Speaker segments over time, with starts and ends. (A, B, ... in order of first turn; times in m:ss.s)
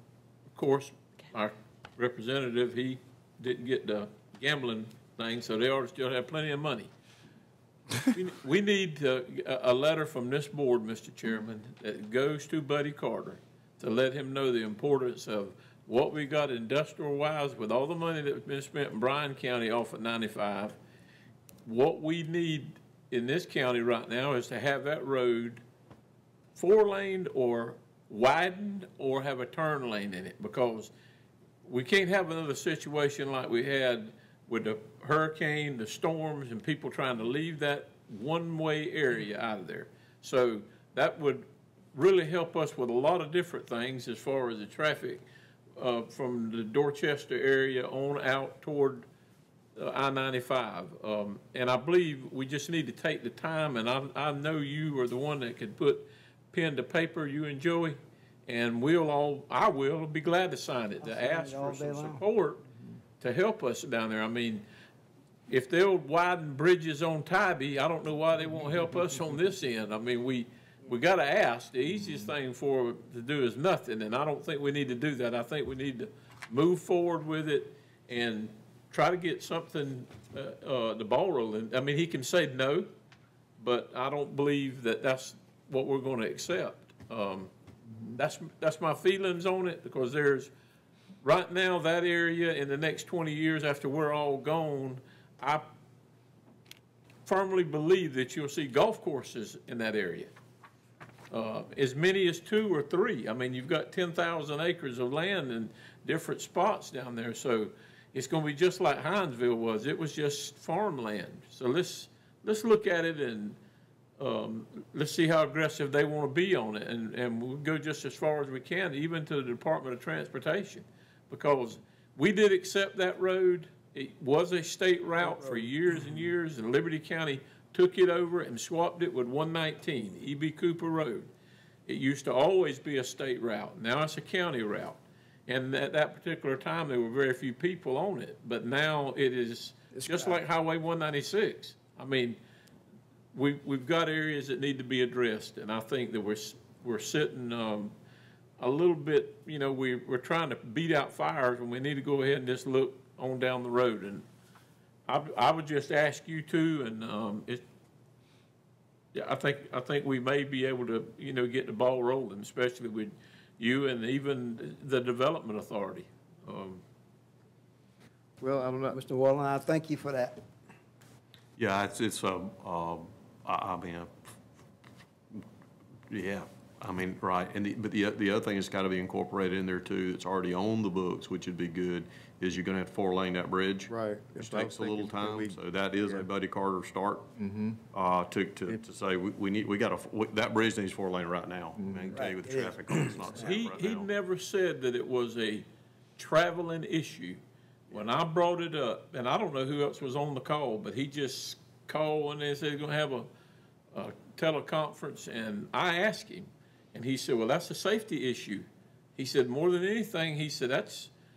0:00.6-0:06.9 A
0:08.1-0:20.8 A
0:21.6-0:25.6 A
0:26.6-0:30.9 A
0:31.6-0:45.2 A
0:45.8-0:49.0 A
0:49.8-1:02.6 A
1:01.0-1:02.2 B
1:03.2-1:04.6 A
1:05.5-1:22.9 A
1:23.6-1:27.5 A
1:28.2-1:30.5 A
1:31.2-1:35.7 A
1:37.2-1:40.3 A
1:41.3-1:53.6 A
1:54.2-2:11.3 A
2:11.8-2:22.4 A
2:19.9-2:20.4 B
2:23.3-2:27.9 A
2:28.6-2:34.2 A
2:35.1-2:37.6 A
2:39.1-2:46.8 A
2:48.4-2:49.0 C
2:48.9-2:50.4 B
2:51.6-2:54.4 D
2:56.1-3:07.3 D
3:03.9-3:06.3 C
3:07.4-3:07.8 C
3:07.9-3:14.1 D
3:11.8-3:12.2 C
3:12.1-3:13.5 B
3:13.4-3:15.6 A
3:16.2-3:23.3 A
3:23.9-3:31.1 A